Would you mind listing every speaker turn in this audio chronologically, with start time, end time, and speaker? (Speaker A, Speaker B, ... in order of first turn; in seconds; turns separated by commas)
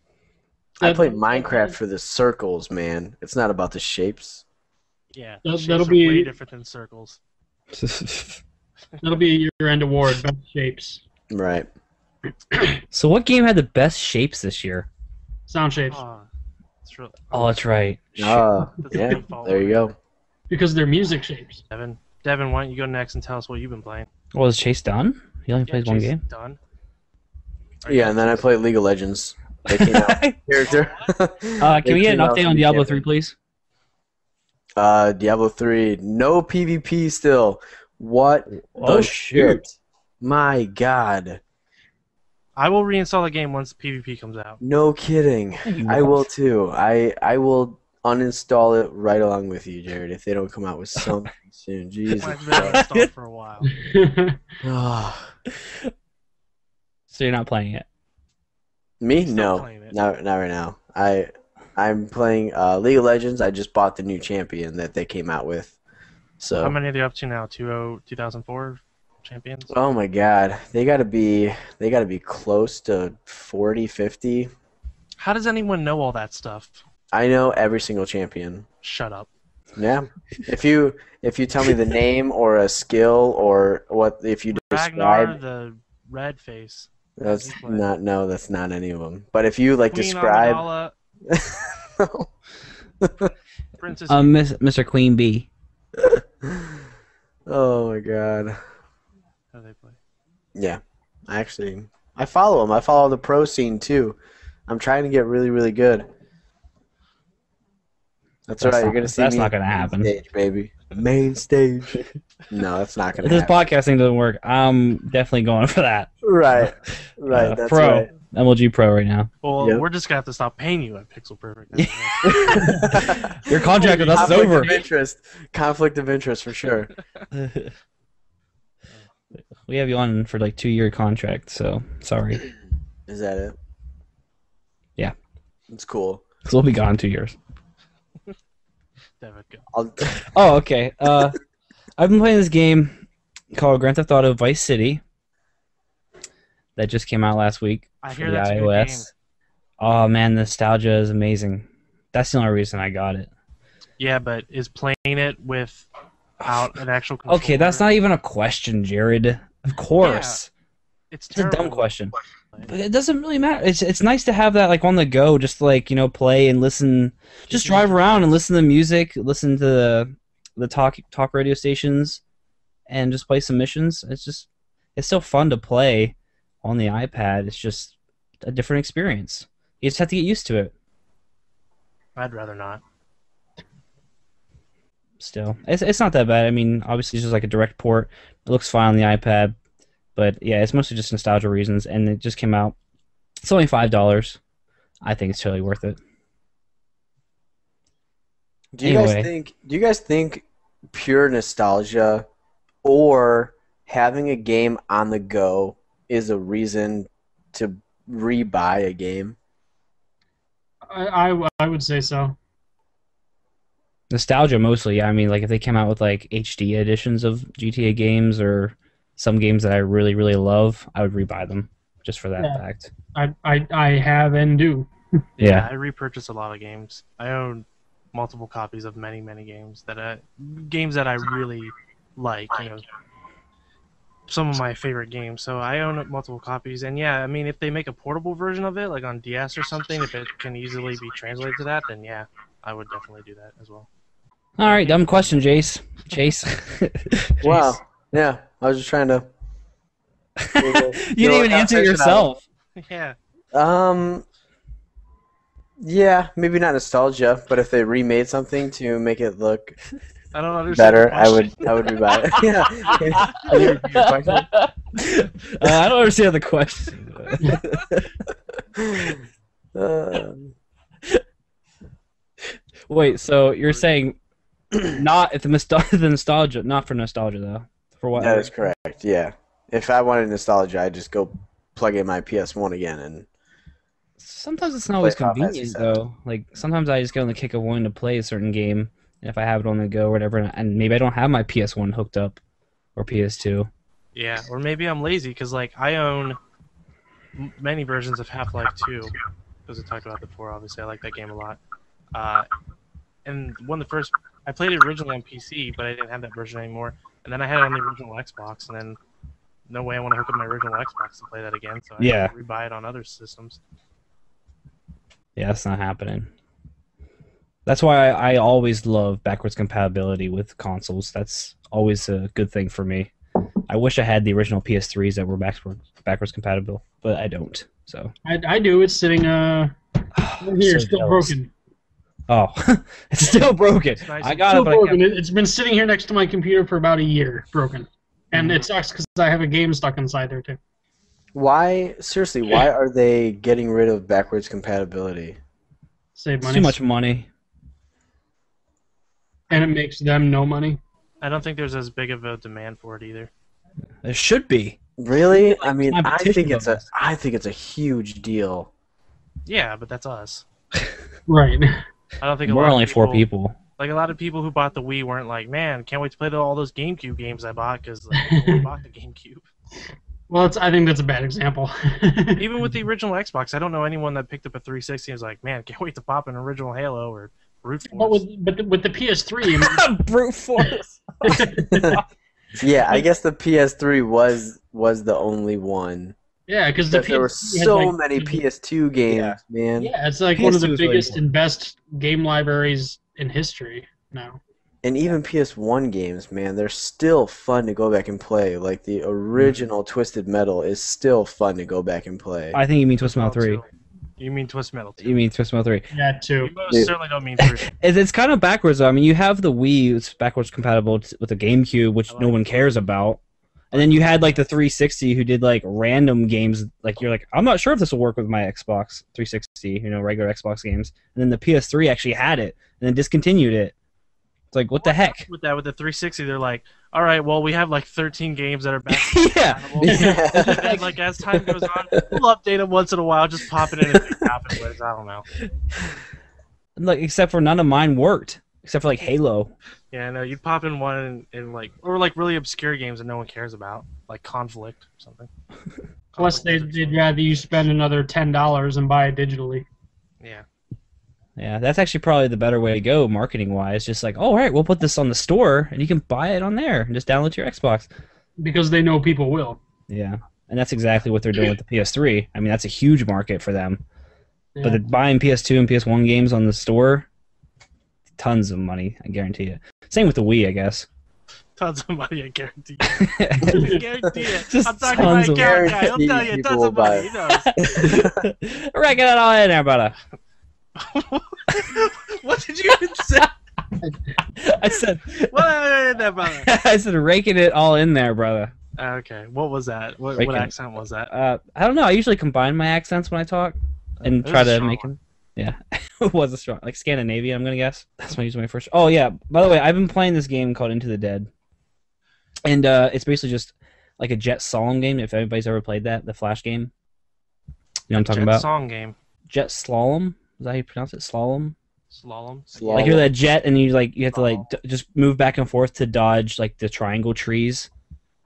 Speaker A: 0.8-4.4, Speaker B: 0.8-1.8, Speaker C: 5.1-7.2, Speaker B: 5.5-6.3, Speaker D: 7.7-8.4, Speaker B: 9.0-11.0, Speaker A: 11.3-11.7, Speaker B: 12.5-12.8, Speaker D: 12.9-14.9, Speaker B: 15.5-16.0, Speaker C: 15.9-16.3, Speaker C: 16.8-17.5, Speaker D: 17.3-18.5, Speaker A: 18.2-19.9, Speaker C: 18.7-19.9, Speaker B: 20.5-21.6, Speaker C: 21.7-24.1, Speaker D: 24.3-26.2, Speaker C: 25.7-26.6, Speaker C: 27.8-28.5, Speaker A: 27.9-33.0, Speaker D: 29.7-30.4, Speaker C: 30.6-31.1, Speaker D: 31.6-33.4, Speaker A: 34.8-41.4, Speaker D: 38.5-39.6, Speaker C: 42.6-44.6, Speaker A: 44.6-52.8, Speaker D: 45.6-46.3, Speaker C: 52.1-53.7, Speaker D: 52.6-53.1, Speaker B: 53.7-54.4, Speaker A: 54.6-55.3, Speaker D: 57.1-57.9, Speaker A: 59.0-65.8, Speaker C: 59.2-60.0, Speaker A: 66.4-66.8, Speaker C: 66.6-69.8, Speaker A: 69.7-74.5, Speaker C: 75.2-76.8, Speaker A: 77.1-78.7, Speaker C: 78.8-79.3, Speaker A: 79.8-85.4, Speaker C: 84.5-87.9, Speaker A: 87.2-90.6, Speaker C: 89.9-90.9, Speaker A: 91.3-92.3, Speaker A: 93.0-93.3, Speaker C: 93.8-94.3, Speaker D: 94.1-95.5, Speaker A: 96.1-96.8, Speaker A: 97.5-98.6, Speaker C: 99.5-100.0, Speaker A: 100.5-104.2, Speaker A: 104.7-106.1, Speaker A: 108.5-113.6, Speaker D: 108.6-110.1, Speaker D: 113.2-119.3, Speaker A: 116.2-118.1, Speaker C: 119.4-122.9, Speaker D: 121.8-124.8, Speaker A: 122.2-126.9, Speaker C: 123.5-124.9, Speaker D: 127.3-127.7, Speaker D: 129.6-132.4, Speaker A: 133.1-133.6, Speaker A: 135.7-136.3, Speaker D: 136.4-137.4, Speaker C: 139.2-139.6, Speaker A: 139.7-140.3, Speaker D: 140.2-141.4, Speaker D: 142.0-143.0, Speaker D: 143.5-145.0, Speaker D: 146.8-149.1, Speaker C: 148.0-149.1, Speaker D: 149.8-153.3, Speaker C: 154.0-155.9, Speaker C: 156.4-157.9, Speaker D: 157.3-160.5, Speaker C: 160.0-160.4, Speaker C: 161.1-161.9, Speaker D: 161.3-162.1, Speaker D: 162.7-172.2, Speaker C: 167.5-168.4, Speaker D: 172.9-180.7, Speaker C: 182.2-182.8, Speaker D: 185.2-189.6, Speaker D: 190.2-192.8, Speaker D: 193.4-194.4, Speaker D: 195.0-196.0, Speaker A: 198.7-202.2, Speaker D: 198.8-199.3, Speaker A: 202.8-209.4, Speaker B: 210.9-212.4, Speaker D: 214.1-222.9, Speaker B: 223.1-224.9, Speaker C: 225.4-232.8, Speaker D: 225.4-225.7, Speaker C: 234.3-243.9, Speaker D: 244.6-247.5, Speaker C: 244.6-245.6, Speaker A: 247.4-249.3, Speaker C: 247.4-247.8, Speaker D: 250.4-252.4, Speaker A: 250.6-252.3, Speaker C: 252.8-253.2, Speaker A: 253.5-254.2, Speaker A: 255.8-259.8, Speaker C: 260.3-262.0, Speaker A: 260.7-264.5, Speaker D: 262.8-268.1, Speaker A: 268.8-269.2, Speaker A: 269.8-270.5, Speaker D: 272.9-274.2, Speaker D: 274.9-278.5, Speaker A: 278.2-283.3, Speaker D: 284.2-292.4, Speaker A: 285.0-286.0, Speaker D: 293.0-293.7, Speaker C: 294.1-296.4, Speaker C: 297.4-299.1, Speaker C: 299.7-301.6, Speaker C: 302.1-302.5, Speaker C: 303.2-309.0, Speaker C: 309.7-313.6, Speaker D: 312.0-312.3, Speaker D: 315.4-316.3, Speaker D: 317.7-323.1, Speaker D: 323.7-328.1, Speaker B: 328.2-329.7, Speaker D: 330.1-331.4, Speaker B: 330.4-331.5, Speaker D: 332.3-335.0, Speaker C: 334.0-334.7, Speaker B: 334.5-340.6, Speaker D: 338.4-338.6, Speaker A: 341.3-345.4, Speaker B: 346.2-346.8, Speaker D: 346.4-347.3, Speaker B: 349.5-350.8, Speaker C: 351.2-353.3, Speaker D: 354.0-354.8, Speaker A: 355.0-358.7, Speaker D: 355.3-356.9, Speaker C: 359.5-360.4, Speaker B: 361.3-361.8, Speaker C: 362.2-363.2, Speaker D: 362.5-363.6, Speaker C: 363.8-369.5, Speaker B: 370.3-372.5, Speaker C: 372.4-378.2, Speaker B: 377.9-379.8, Speaker D: 379.4-382.0, Speaker B: 381.2-382.0, Speaker A: 381.7-382.0, Speaker A: 382.6-386.1, Speaker B: 386.5-388.4, Speaker A: 386.9-391.2, Speaker D: 389.1-389.4, Speaker B: 389.8-394.4, Speaker A: 394.8-402.6, Speaker D: 402.5-403.6, Speaker C: 403.0-405.2, Speaker D: 405.0-405.9, Speaker B: 405.9-406.5, Speaker C: 406.4-407.7, Speaker D: 407.7-413.2, Speaker C: 412.1-412.6, Speaker C: 413.7-414.4, Speaker D: 413.7-423.7, Speaker D: 424.5-425.2, Speaker C: 424.8-435.3, Speaker D: 429.0-430.7, Speaker A: 429.8-432.1, Speaker D: 436.8-439.5, Speaker C: 439.9-445.3, Speaker C: 446.1-447.7, Speaker B: 446.2-449.6, Speaker C: 450.2-450.5, Speaker D: 451.4-457.9, Speaker B: 458.4-459.6, Speaker D: 459.9-463.8, Speaker B: 464.6-464.8, Speaker D: 464.6-467.1, Speaker D: 468.2-470.9, Speaker C: 471.6-477.5, Speaker D: 473.0-473.7, Speaker B: 473.5-473.8, Speaker D: 474.5-475.7, Speaker A: 475.0-478.2, Speaker D: 477.3-479.9, Speaker C: 480.8-483.3, Speaker D: 484.4-485.5, Speaker C: 485.2-486.5, Speaker D: 486.3-488.5, Speaker C: 488.8-491.1, Speaker D: 490.2-490.5, Speaker D: 491.1-501.3, Speaker C: 494.0-494.9, Speaker D: 502.4-506.7, Speaker D: 507.9-508.5, Speaker C: 507.9-508.9, Speaker D: 509.3-511.6, Speaker C: 511.9-513.0, Speaker A: 512.5-513.1, Speaker D: 512.8-517.7, Speaker C: 514.1-514.4